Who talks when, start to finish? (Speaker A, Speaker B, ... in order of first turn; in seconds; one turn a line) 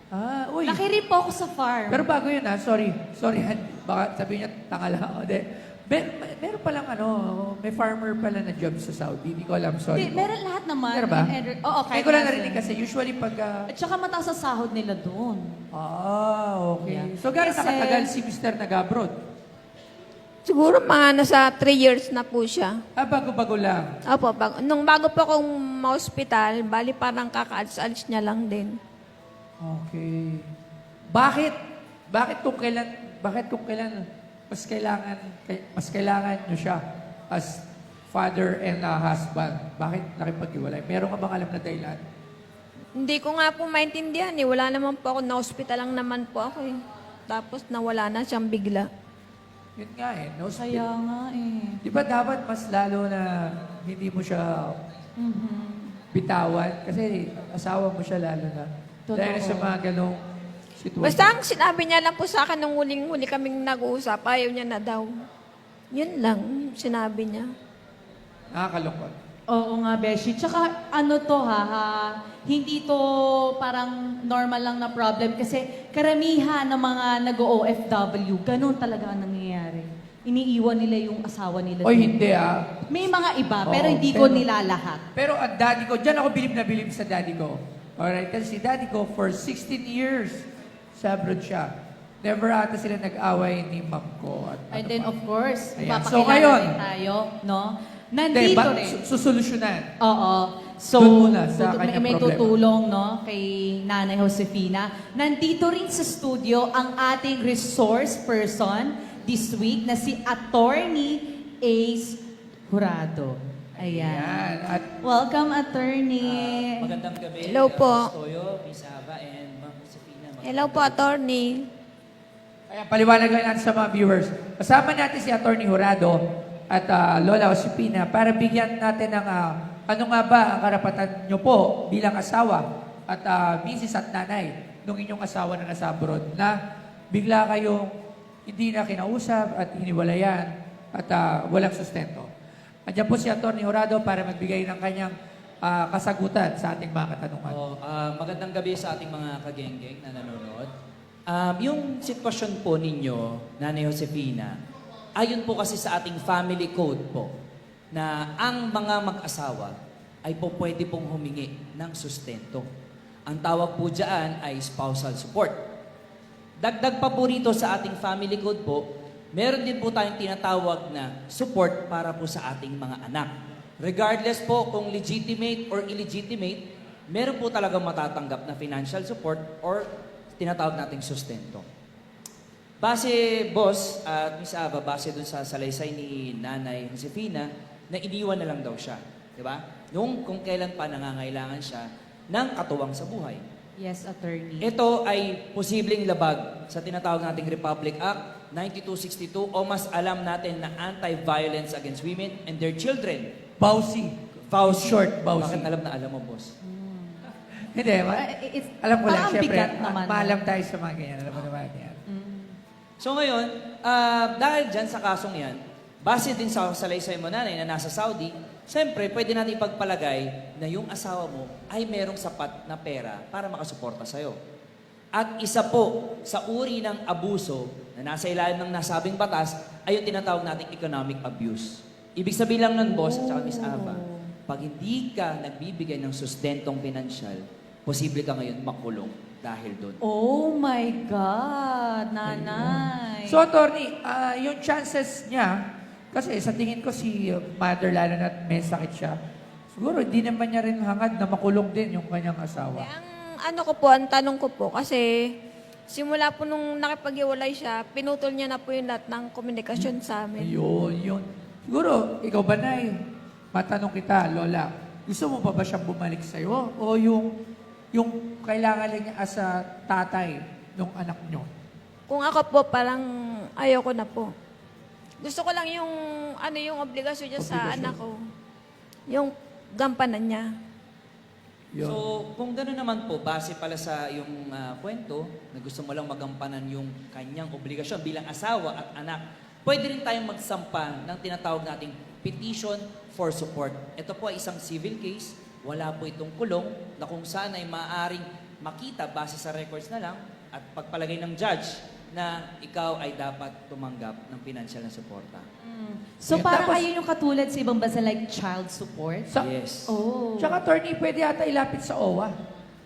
Speaker A: 0.1-0.8
Speaker B: 0.6-2.0
Speaker A: 1.9-10.3
Speaker B: 9.9-12.7
Speaker A: 10.9-11.3
Speaker A: 11.9-13.7
Speaker B: 13.7-15.6
Speaker A: 15.7-19.1
Speaker B: 16.8-18.1
Speaker C: 20.5-22.7
Speaker A: 23.0-23.9
Speaker C: 24.1-28.8
Speaker A: 29.6-30.5
Speaker A: 31.1-31.6
Speaker A: 32.1-42.0
Speaker C: 43.0-46.7
Speaker C: 47.3-48.9
Speaker A: 49.8-50.8
Speaker B: 50.6-51.8
Speaker A: 51.8-54.8
Speaker B: 55.2-56.0
Speaker A: 56.1-60.2
Speaker B: 59.1-59.7
Speaker A: 60.8-61.3
Speaker C: 61.0-65.1
Speaker C: 65.9-67.5
Speaker A: 68.5-69.2
Speaker B: 69.5-82.1
Speaker A: 81.8-82.8
Speaker B: 82.9-85.0
Speaker A: 83.6-84.5
Speaker A: 85.1-90.4
Speaker A: 91.0-91.7
Speaker A: 92.2-95.1
Speaker B: 94.7-99.0
Speaker A: 95.8-96.8
Speaker A: 98.3-99.9
Speaker B: 100.0-114.4
Speaker A: 100.9-102.6
Speaker A: 113.8-114.9
Speaker B: 115.0-116.9
Speaker D: 116.2-121.0
Speaker C: 117.4-118.1
Speaker C: 120.4-121.7
Speaker A: 122.7-136.6
Speaker A: 137.1-137.9
Speaker A: 138.5-142.3
Speaker A: 142.9-147.6
Speaker D: 147.4-150.7
Speaker D: 151.3-154.6
Speaker D: 155.2-157.3
Speaker D: 157.9-159.7
Speaker D: 160.2-162.7
Speaker D: 163.3-165.6
Speaker D: 166.6-181.7
Speaker D: 182.8-193.4
Speaker B: 193.8-194.7
Speaker D: 194.6-203.3
Speaker A: 203.6-205.7
Speaker D: 204.5-206.5
Speaker B: 206.6-207.3
Speaker A: 207.7-208.3
Speaker B: 208.1-210.4
Speaker A: 208.8-212.0
Speaker B: 212.1-212.6
Speaker D: 213.0-224.3
Speaker D: 225.2-240.0
Speaker B: 232.8-234.3
Speaker B: 240.0-243.4
Speaker A: 242.2-245.6
Speaker A: 246.1-249.2
Speaker A: 249.7-252.9
Speaker C: 252.7-255.1
Speaker C: 255.9-260.5
Speaker A: 259.8-263.0
Speaker A: 263.5-267.3
Speaker A: 267.9-271.5
Speaker C: 272.1-273.0
Speaker C: 273.6-274.3
Speaker C: 275.2-278.1
Speaker A: 277.4-278.0
Speaker C: 279.1-280.4
Speaker A: 281.7-282.0
Speaker D: 281.8-305.4
Speaker B: 305.6-309.3
Speaker A: 306.3-306.8
Speaker D: 309.4-309.9
Speaker B: 309.9-310.6
Speaker A: 310.4-312.3